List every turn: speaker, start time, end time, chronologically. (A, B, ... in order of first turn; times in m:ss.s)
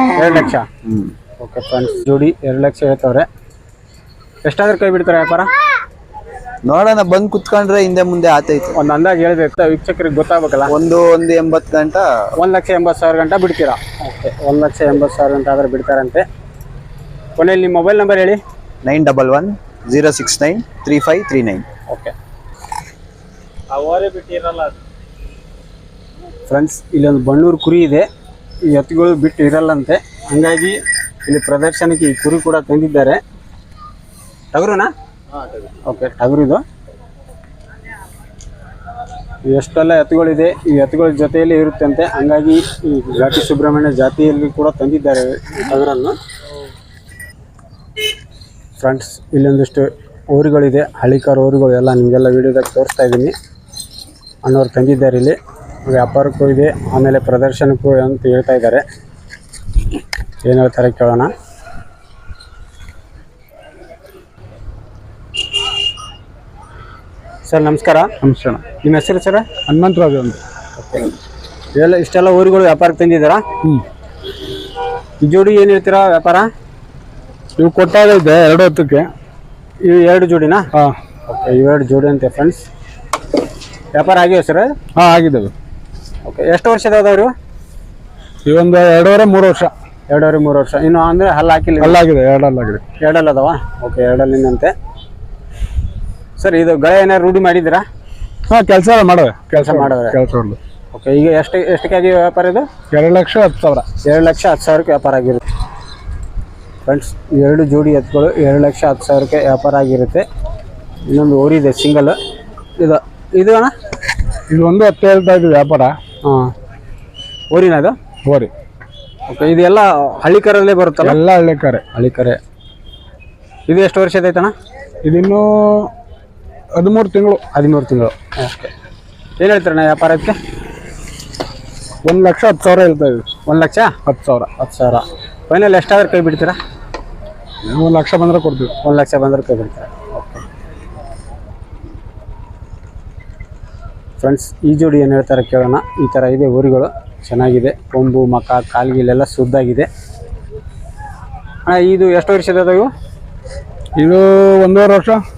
0:00.2-0:00.7 A
0:00.8-0:01.1 B
0:01.4-0:03.3 A
0:04.4-0:05.5 A
0:06.7-0:08.7 B
0:08.8-0:10.7 A
0:10.7-0:12.1 B
0:12.4-0:16.2 A
0:17.4-0:18.4 A
0:18.8-0:21.6 B
0:21.9-0:22.1 A
0:23.8-0:24.6 A
0:26.5-0:28.1 A
0:28.7-0:33.2 A
0:34.5-0:34.9 A
0:35.9-0:36.6 A
0:39.5-0:46.2 A
0:48.8-0:53.3 A
0:54.4-0:58.8 A
1:00.4-1:01.3 A
1:07.5-1:08.1 A
1:08.2-1:08.6 C
1:08.7-1:09.5 A
1:09.7-1:10.4 C
1:10.8-1:11.1 A
1:11.8-1:13.4 A
1:15.2-1:16.5 A
1:17.6-1:19.1 C
1:19.8-1:20.7 A
1:21.3-1:22.6 A
1:24.0-1:24.8 A
1:25.0-1:25.5 C
1:26.3-1:27.3 A
1:28.5-1:29.7 C
1:30.1-1:32.0 A
1:31.8-1:32.8 C
1:33.0-1:34.7 A
1:36.4-1:37.8 A
1:38.5-1:40.6 C
1:39.6-1:40.2 A
1:40.9-1:42.7 A
1:42.9-1:43.9 C
1:44.0-1:45.4 A
1:46.9-1:50.3 A
1:51.1-1:52.2 A
1:52.8-1:53.7 A
1:54.5-1:55.9 C
1:56.2-1:56.5 A
1:57.5-1:58.0 A
1:59.3-2:01.2 A
2:01.0-2:01.8 C
2:01.9-2:02.4 A
2:03.7-2:04.5 A
2:05.1-2:05.9 C
2:06.8-2:07.4 C
2:07.5-2:08.7 A
2:09.4-2:10.4 A
2:12.0-2:13.3 C
2:13.5-2:14.0 A
2:14.1-2:14.5 C
2:14.6-2:16.6 A
2:17.7-2:18.7 C
2:18.8-2:20.4 A
2:24.2-2:29.9 A
2:31.7-2:32.9 A
2:34.0-2:35.2 C